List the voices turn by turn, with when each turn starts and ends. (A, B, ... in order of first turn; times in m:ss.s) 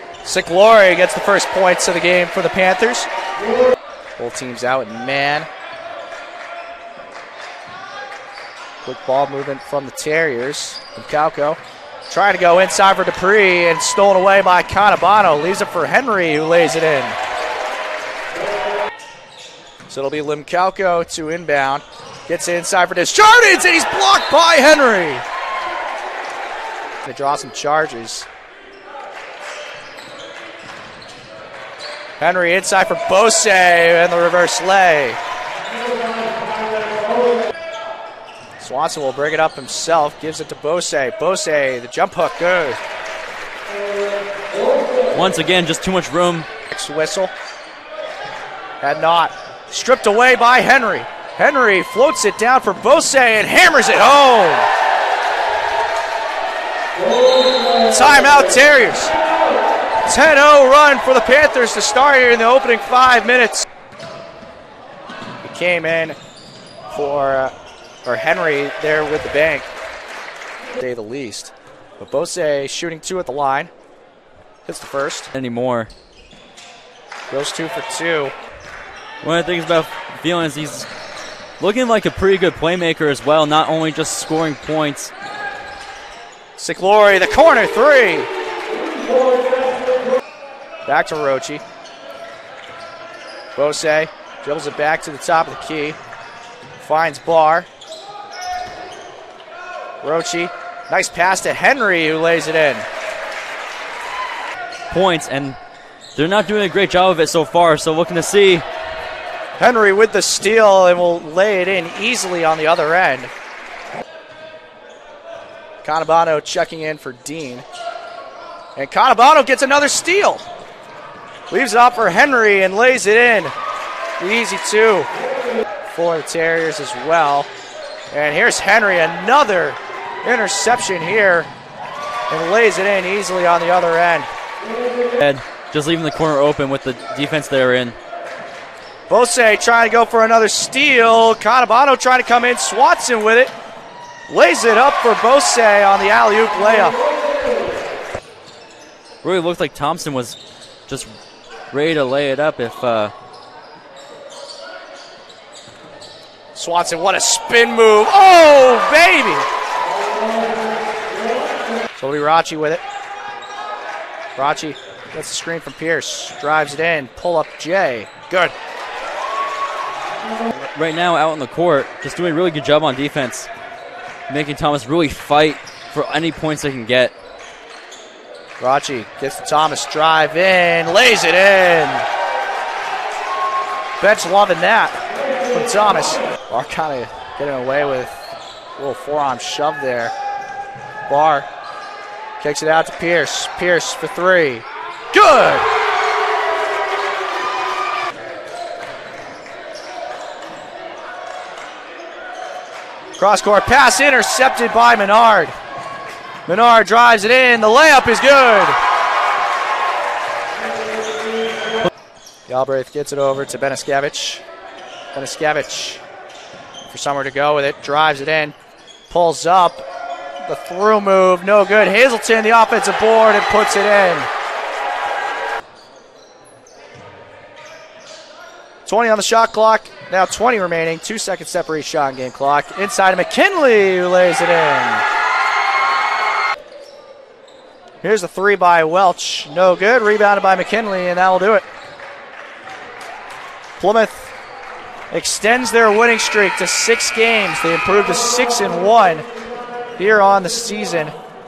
0:00.2-0:03.1 A
0:04.2-0:05.5 A
0:08.8-0:17.2 A
0:19.9-0:25.2 A
0:27.0-0:28.3 A
0:32.2-0:35.2 A
0:38.6-0:42.8 A
0:45.1-0:46.5 B
0:46.7-0:47.3 A
0:48.8-0:54.7 A
0:57.8-0:59.1 A
1:00.0-1:03.6 A
1:05.4-1:06.2 A
1:06.9-1:07.5 A
1:08.0-1:09.7 A
1:10.8-1:13.7 A
1:14.6-1:15.3 A
1:15.3-1:15.9 B
1:17.3-1:18.3 A
1:19.2-1:20.9 B
1:21.6-1:25.1 B
1:26.6-1:28.3 A
1:30.8-1:31.6 A
1:33.6-1:36.0 A
1:36.8-1:37.7 A
1:40.0-1:42.8 A
1:44.9-1:45.6 B
1:46.1-1:48.6 B
1:49.6-1:53.3 A
1:55.8-1:57.6 A
1:58.8-2:00.4 A
2:01.5-2:03.5 A
2:04.2-2:05.1 A
2:05.9-2:07.5 A
2:08.1-2:11.5 A
2:12.3-2:14.3 A
2:15.2-2:18.0 B
2:19.1-2:23.5 A
2:24.3-2:27.0 A
2:29.2-2:31.1 B
2:31.7-2:33.1 B
2:36.5-2:39.5 A
2:42.0-2:42.8 A
2:44.4-2:48.5 A
2:50.7-2:53.5 B
2:54.3-2:57.1 B
2:58.6-3:02.0 A
3:04.0-3:05.0 A
3:05.5-3:10.1 A
3:11.1-3:11.5 A
3:12.4-3:15.7 A
3:23.2-3:25.5 A
3:26.5-3:28.8 A
3:32.5-3:34.4 A
3:35.1-3:36.0 A
3:36.9-3:38.5 A
3:39.1-3:39.8 A
3:40.4-3:44.3 A
3:48.8-3:55.0 A
3:58.0-4:01.6 A
4:03.8-4:04.3 A
4:05.1-4:09.2 A
4:10.0-4:11.1 A